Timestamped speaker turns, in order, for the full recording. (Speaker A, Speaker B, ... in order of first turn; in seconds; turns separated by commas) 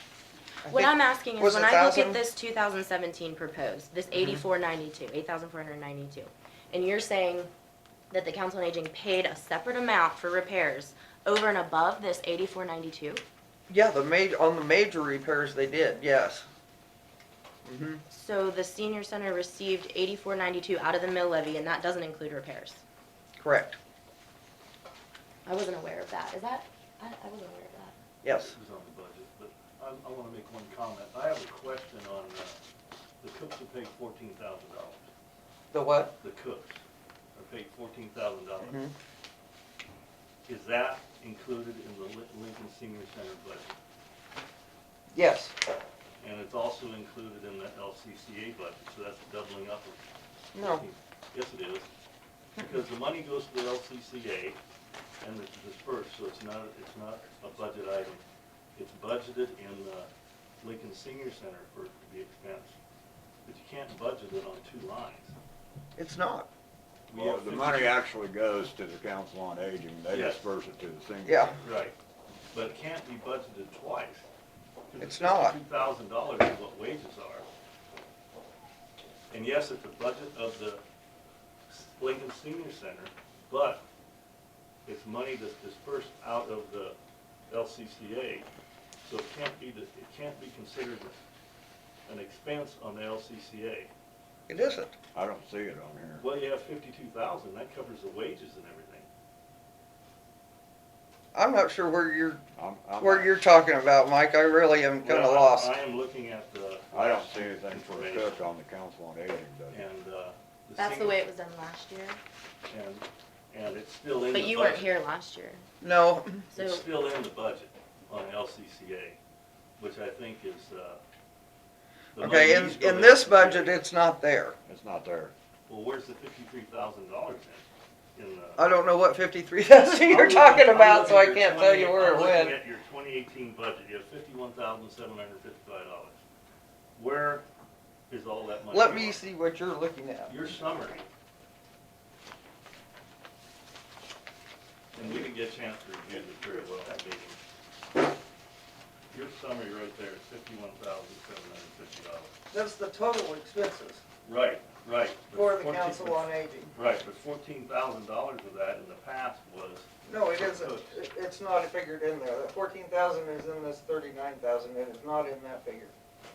Speaker A: 0.6-2.2, Speaker B: 0.7-7.5, Speaker A: 4.1-4.4, Speaker B: 8.1-13.2, Speaker A: 13.7-16.4, Speaker A: 17.6-18.0, Speaker B: 18.1-22.8, Speaker A: 23.4-23.8, Speaker B: 25.4-27.9, Speaker A: 28.2-28.5, Speaker C: 28.3-32.6, Speaker C: 33.2-35.0, Speaker A: 35.7-36.1, Speaker C: 36.2-36.8, Speaker C: 37.3-38.8, Speaker A: 38.6-38.9, Speaker C: 40.5-43.7, Speaker A: 45.1-45.5, Speaker C: 46.2-50.0, Speaker A: 50.5-50.8, Speaker C: 50.5-51.9, Speaker C: 52.6-54.6, Speaker C: 55.2-58.2, Speaker C: 58.8-60.1, Speaker C: 60.6-62.7, Speaker C: 63.4-65.3, Speaker A: 66.0-66.5, Speaker C: 67.1-68.0, Speaker D: 67.1-71.5, Speaker C: 70.1-70.5, Speaker A: 71.2-71.5, Speaker C: 71.6-71.9, Speaker C: 72.5-74.3, Speaker C: 74.9-77.5, Speaker A: 75.0-75.6, Speaker C: 79.3-80.8, Speaker C: 81.7-83.8, Speaker C: 84.8-87.0, Speaker C: 87.5-88.5, Speaker C: 89.0-91.2, Speaker C: 92.0-93.9, Speaker A: 94.5-94.9, Speaker D: 95.1-96.2, Speaker C: 96.2-99.1, Speaker A: 101.3-102.4, Speaker D: 102.6-103.3, Speaker A: 103.0-105.7, Speaker C: 105.0-108.5, Speaker D: 106.9-109.8, Speaker C: 109.7-111.2, Speaker B: 110.8-112.2, Speaker C: 112.7-114.9, Speaker B: 114.3-115.6, Speaker A: 115.8-116.5, Speaker B: 116.5-116.8, Speaker C: 116.5-119.2, Speaker C: 119.8-121.0, Speaker C: 122.1-123.8, Speaker A: 122.2-124.5, Speaker D: 124.7-125.3, Speaker C: 125.7-127.6, Speaker C: 128.1-128.7, Speaker A: 128.6-132.6, Speaker C: 130.0-136.2, Speaker C: 136.9-137.4, Speaker C: 138.1-139.2, Speaker A: 138.7-140.4, Speaker C: 140.3-141.1, Speaker C: 144.9-147.4, Speaker C: 149.1-152.3, Speaker A: 152.5-154.0, Speaker C: 154.2-160.9, Speaker A: 155.3-156.7, Speaker A: 160.1-165.9